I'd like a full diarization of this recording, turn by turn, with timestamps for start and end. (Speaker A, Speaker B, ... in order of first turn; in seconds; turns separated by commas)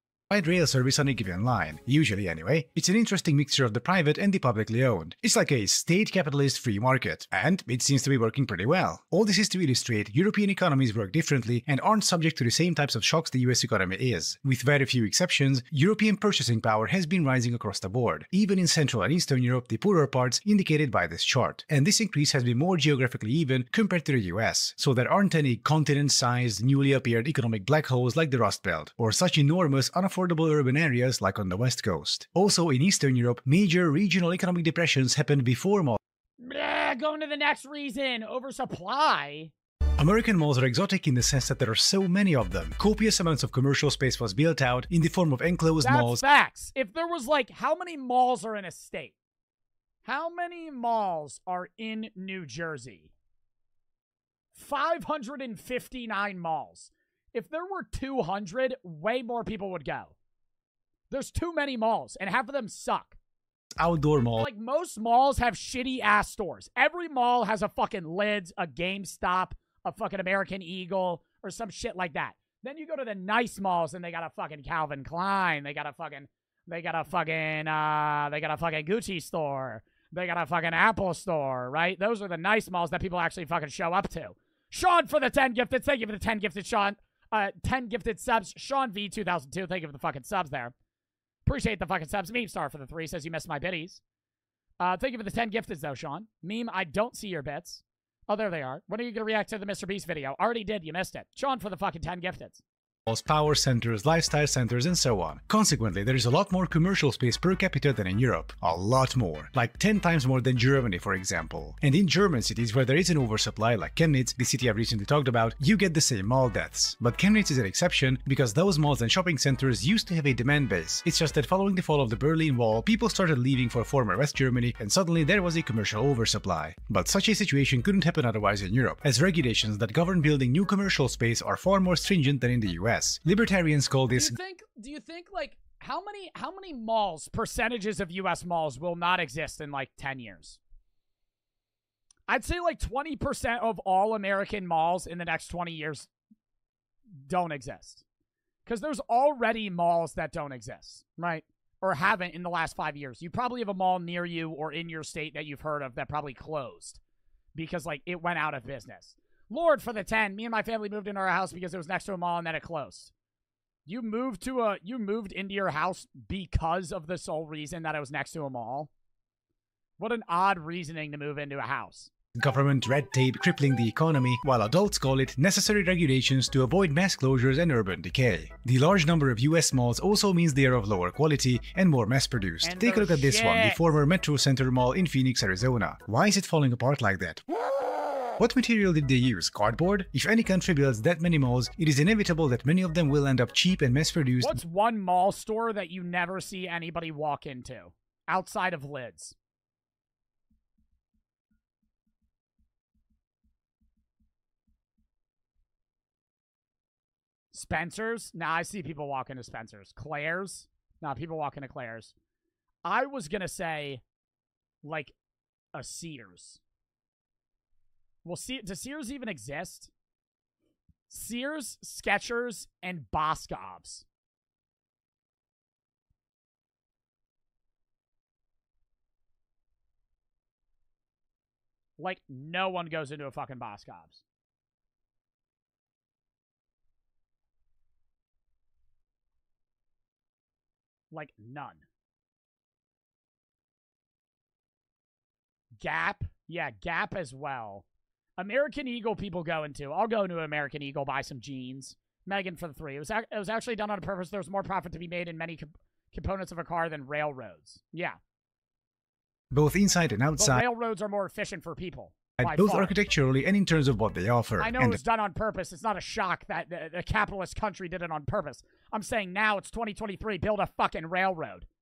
Speaker A: 0.3-36.0, Speaker B: 36.4-39.5, Speaker A: 40.0-46.2, Speaker B: 45.8-49.1, Speaker B: 50.0-53.1, Speaker B: 54.5-60.1, Speaker B: 61.1-63.2, Speaker A: 63.8-64.5, Speaker B: 64.4-90.7, Speaker B: 91.5-94.0, Speaker B: 94.8-102.6, Speaker A: 103.1-134.4, Speaker B: 134.2-140.6, Speaker B: 142.3-146.1, Speaker B: 147.2-148.0, Speaker B: 148.7-157.0, Speaker B: 157.6-163.1, Speaker B: 163.9-168.9, Speaker B: 170.0-172.1, Speaker A: 172.4-187.4, Speaker B: 182.6-183.8, Speaker A: 188.4-194.6, Speaker B: 194.4-199.3, Speaker B: 207.5-212.1, Speaker B: 212.8-214.0, Speaker B: 214.8-215.1, Speaker B: 215.7-216.6, Speaker B: 218.2-219.9, Speaker B: 221.1-224.1, Speaker B: 232.0-234.2, Speaker B: 241.1-241.8, Speaker B: 245.8-247.8, Speaker B: 248.4-258.2, Speaker A: 259.5-260.6, Speaker B: 260.4-262.9, Speaker A: 262.4-265.0, Speaker B: 264.6-271.7